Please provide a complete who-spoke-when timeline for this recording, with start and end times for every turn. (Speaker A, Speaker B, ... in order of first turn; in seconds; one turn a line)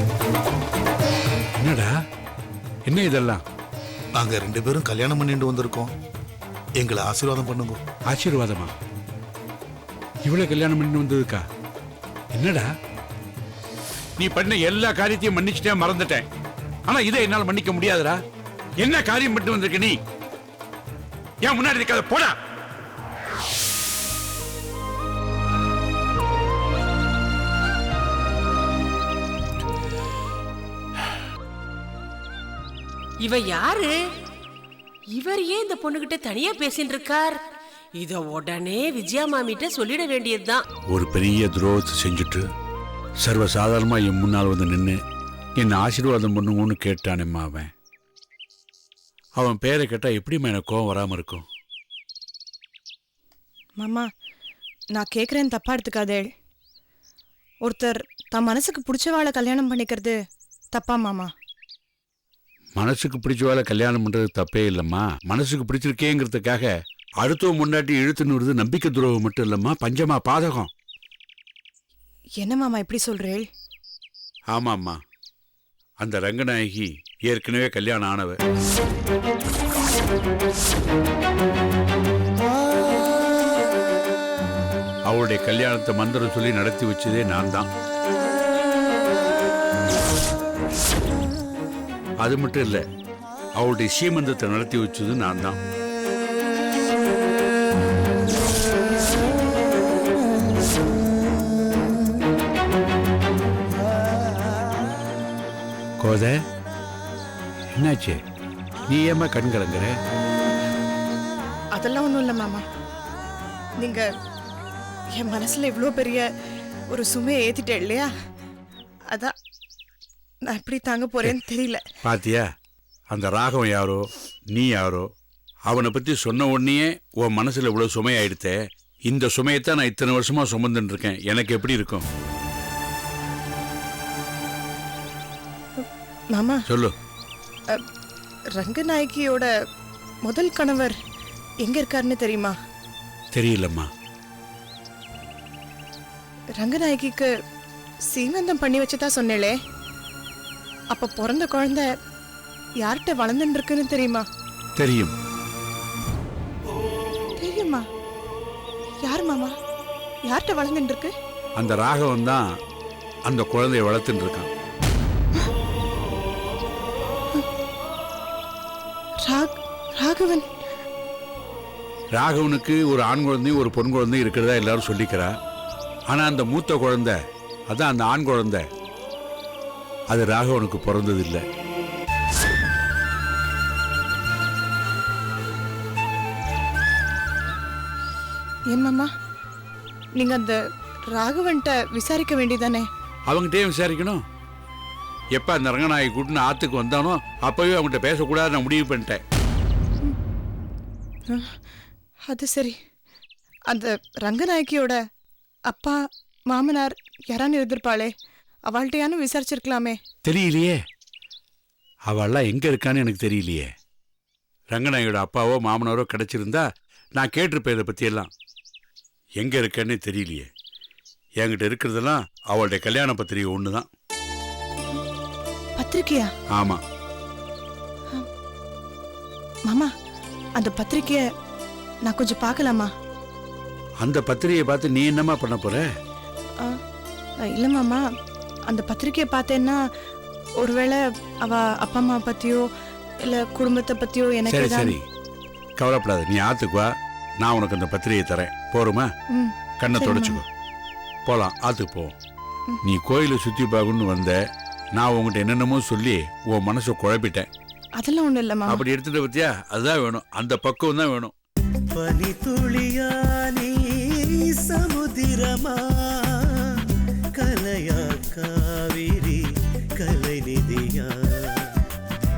Speaker A: 1.6-2.0
Speaker A: 2.9-3.4
Speaker B: 4.2-5.9
Speaker C: 6.8-7.5
Speaker B: 6.8-7.8
Speaker A: 8.1-8.7
Speaker A: 10.2-11.4
Speaker A: 12.3-12.7
Speaker A: 14.2-16.3
Speaker A: 16.9-18.2
Speaker A: 18.8-20.0
Speaker A: 21.4-22.4
Speaker D: 33.2-34.0
Speaker D: 35.1-37.4
Speaker D: 38.0-40.7
Speaker A: 40.9-42.5
Speaker A: 43.2-45.0
Speaker A: 45.6-47.7
Speaker A: 49.4-51.5
Speaker E: 53.8-54.1
Speaker E: 55.0-56.3
Speaker E: 57.6-60.2
Speaker E: 60.7-61.3
Speaker A: 62.8-66.7
Speaker A: 67.2-70.7
Speaker E: 72.4-73.5
Speaker A: 74.5-75.0
Speaker A: 76.0-78.4
Speaker A: 85.1-87.7
Speaker A: 92.2-92.8
Speaker A: 93.6-95.6
Speaker A: 106.0-106.4
Speaker A: 107.7-108.2
Speaker A: 108.9-110.0
Speaker E: 111.8-112.6
Speaker E: 113.8-114.1
Speaker E: 115.2-116.3
Speaker E: 116.9-118.1
Speaker E: 120.5-121.8
Speaker A: 122.0-122.5
Speaker A: 123.1-125.1
Speaker A: 125.7-132.1
Speaker E: 136.3-136.6
Speaker A: 136.7-136.9
Speaker E: 138.6-139.5
Speaker E: 140.2-141.0
Speaker E: 141.6-142.6
Speaker A: 143.3-143.9
Speaker E: 146.6-147.3
Speaker E: 148.1-149.6
Speaker E: 150.9-151.9
Speaker E: 152.8-154.3
Speaker A: 154.8-155.2
Speaker E: 157.4-157.9
Speaker E: 159.0-159.5
Speaker E: 160.3-161.1
Speaker A: 161.6-162.4
Speaker A: 163.3-164.5
Speaker E: 169.2-170.5
Speaker A: 172.2-175.3
Speaker A: 176.1-177.2
Speaker A: 177.7-178.6
Speaker A: 180.1-181.4
Speaker E: 188.7-189.1
Speaker E: 190.2-190.6
Speaker E: 191.1-192.9
Speaker A: 193.3-194.2
Speaker A: 195.3-199.2
Speaker E: 201.3-201.6
Speaker E: 202.3-202.8
Speaker E: 203.7-205.0
Speaker E: 205.7-206.0
Speaker E: 206.5-208.1
Speaker E: 208.7-210.0
Speaker A: 210.2-210.8
Speaker A: 212.1-213.7
Speaker A: 214.7-218.3
Speaker A: 219.4-220.5
Speaker A: 221.4-223.9
Speaker E: 225.8-226.3
Speaker A: 226.5-226.8
Speaker E: 230.6-231.2
Speaker E: 232.1-232.9
Speaker A: 234.0-235.9
Speaker E: 237.5-238.0
Speaker E: 238.7-239.8
Speaker E: 240.6-242.6
Speaker E: 243.2-245.0
Speaker A: 244.5-245.0
Speaker A: 245.8-249.1
Speaker E: 249.3-250.4
Speaker A: 249.8-250.5
Speaker A: 251.3-252.2
Speaker A: 252.8-254.4
Speaker A: 255.0-257.5
Speaker E: 258.0-258.8
Speaker A: 258.7-261.3
Speaker C: 261.9-269.4
Speaker C: 270.0-271.8